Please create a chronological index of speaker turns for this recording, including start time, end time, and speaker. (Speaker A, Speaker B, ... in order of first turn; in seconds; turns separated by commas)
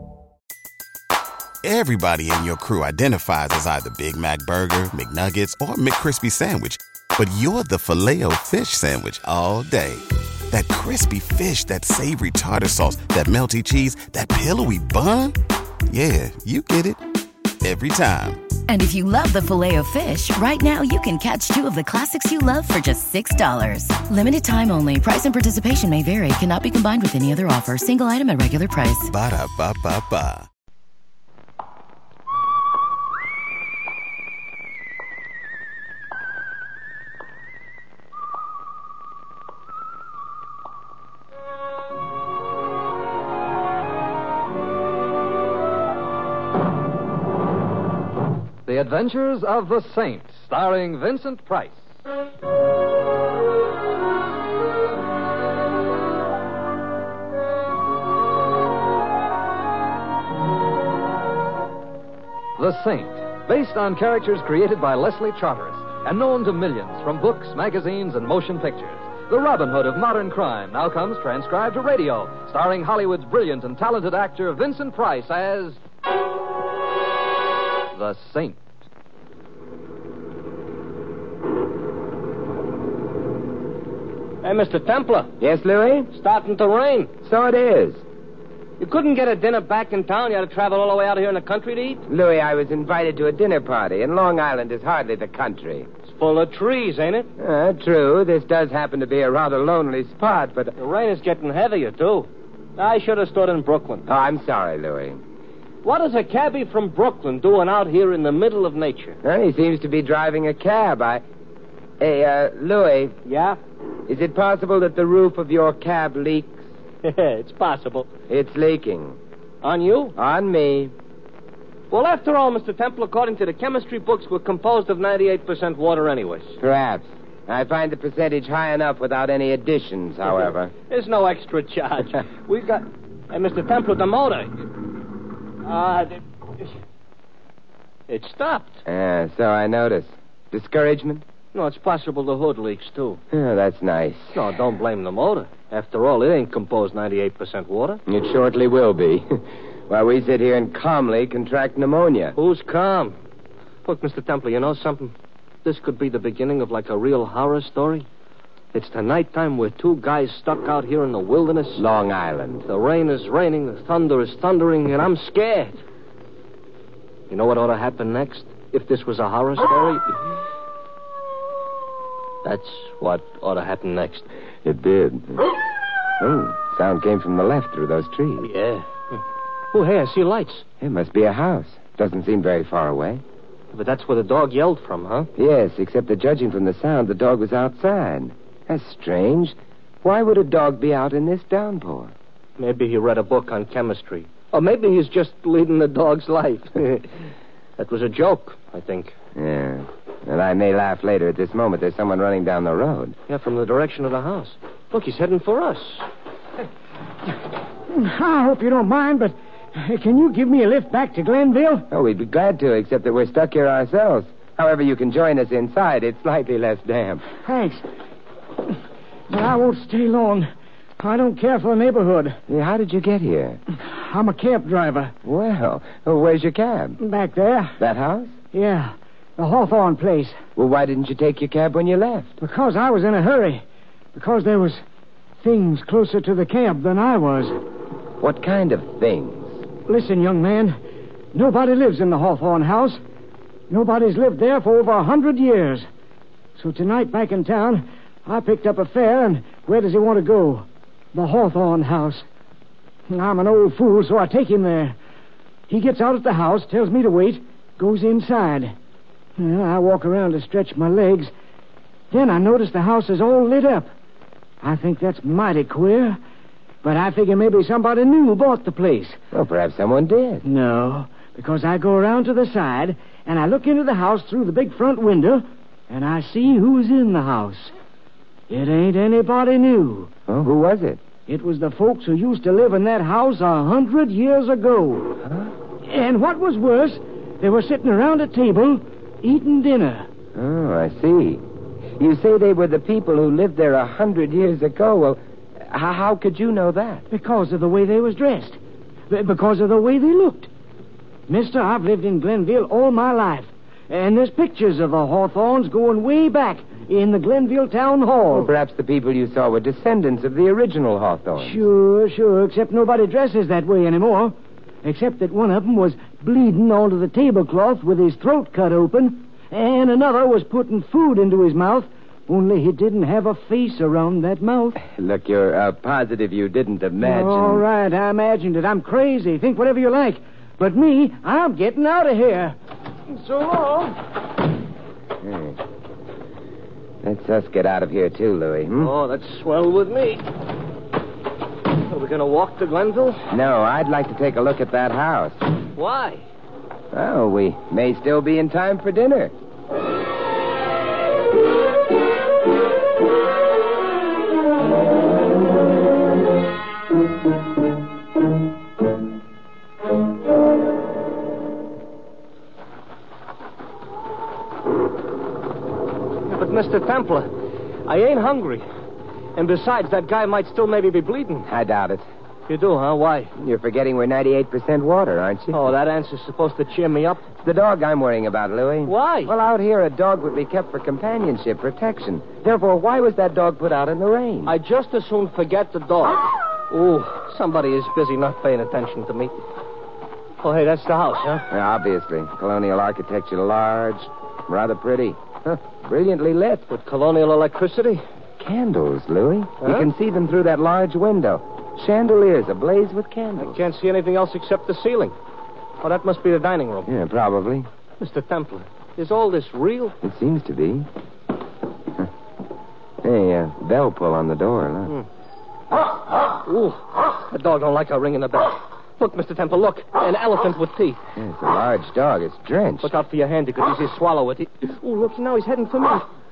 Speaker A: 1.6-15.4, Speaker A: 15.9-17.0, Speaker A: 17.6-18.5, Speaker B: 18.7-29.1, Speaker A: 29.1-30.4, Speaker C: 48.6-51.8, Speaker C: 62.6-75.8, Speaker C: 77.9-78.6, Speaker D: 84.4-85.3, Speaker E: 85.4-86.1, Speaker D: 86.1-87.1, Speaker E: 87.2-88.0, Speaker D: 88.8-92.0, Speaker E: 92.1-95.9, Speaker D: 96.1-97.3, Speaker E: 97.4-100.7, Speaker D: 100.8-104.0, Speaker E: 104.1-105.2, Speaker D: 105.8-109.2, Speaker E: 109.2-111.2, Speaker E: 112.0-113.2, Speaker D: 113.2-113.6, Speaker E: 114.1-116.7, Speaker D: 117.0-118.1, Speaker E: 118.3-119.2, Speaker D: 119.6-120.1, Speaker E: 120.2-120.9, Speaker D: 121.9-126.6, Speaker E: 126.6-130.7, Speaker D: 130.9-134.5, Speaker D: 135.6-136.7, Speaker D: 138.1-138.8, Speaker E: 138.8-141.2, Speaker D: 141.5-143.2, Speaker E: 143.3-144.5, Speaker D: 144.3-148.0, Speaker E: 148.1-152.4, Speaker D: 152.3-153.2, Speaker D: 153.8-158.1, Speaker D: 158.7-161.8, Speaker E: 161.8-162.7, Speaker D: 162.7-165.8, Speaker D: 167.3-170.2, Speaker D: 172.4-174.3, Speaker E: 174.6-175.5, Speaker E: 176.2-178.5, Speaker D: 178.4-179.2, Speaker D: 179.7-180.7, Speaker E: 180.8-183.2, Speaker D: 183.7-185.3, Speaker E: 185.4-192.1, Speaker D: 192.6-197.2, Speaker D: 197.8-199.1, Speaker E: 199.3-203.2, Speaker D: 203.3-206.1, Speaker F: 207.9-211.9, Speaker E: 211.9-217.3, Speaker F: 217.4-217.8, Speaker F: 219.3-222.4, Speaker E: 222.5-223.6, Speaker F: 223.8-225.1, Speaker E: 225.2-227.0, Speaker F: 227.0-227.8, Speaker E: 227.8-228.3, Speaker F: 228.5-230.4, Speaker E: 230.6-232.4, Speaker F: 232.4-234.8, Speaker F: 235.4-237.6, Speaker E: 238.2-239.6, Speaker F: 239.8-240.8, Speaker F: 241.3-243.0, Speaker F: 243.7-245.9, Speaker F: 246.6-252.2, Speaker F: 253.1-255.0, Speaker F: 255.7-258.7, Speaker F: 259.4-261.3, Speaker F: 262.1-263.9, Speaker F: 264.6-266.2, Speaker F: 266.8-269.2, Speaker E: 269.3-270.4, Speaker F: 270.4-277.7, Speaker F: 278.5-280.1, Speaker E: 280.3-281.0, Speaker F: 281.3-285.2, Speaker E: 285.2-285.5, Speaker F: 285.8-290.1, Speaker E: 290.3-291.4, Speaker E: 292.0-297.1, Speaker F: 297.1-298.6, Speaker F: 299.1-300.5, Speaker F: 301.3-308.5, Speaker E: 308.3-311.6, Speaker F: 311.4-324.8, Speaker E: 324.8-327.6, Speaker F: 327.0-332.6, Speaker F: 333.2-333.9, Speaker E: 335.2-335.6, Speaker E: 337.0-338.9, Speaker D: 338.8-340.3, Speaker D: 341.7-343.3, Speaker E: 343.3-345.4, Speaker D: 345.8-346.2, Speaker E: 346.9-349.3, Speaker D: 366.2-367.3, Speaker D: 367.8-368.6, Speaker D: 369.3-371.5, Speaker E: 371.4-372.1, Speaker D: 372.5-373.3, Speaker E: 373.4-375.6, Speaker D: 375.5-377.2, Speaker E: 377.4-384.5, Speaker D: 378.9-379.3, Speaker D: 384.4-389.3, Speaker D: 390.4-391.5, Speaker E: 391.5-396.6, Speaker D: 396.7-398.0, Speaker E: 398.4-403.6, Speaker D: 399.6-399.9, Speaker D: 403.4-405.1, Speaker D: 405.8-406.9, Speaker E: 406.9-407.7, Speaker D: 408.0-409.9, Speaker E: 410.0-410.9, Speaker E: 413.0-415.0, Speaker D: 416.4-421.0, Speaker E: 421.1-422.9, Speaker D: 422.8-426.0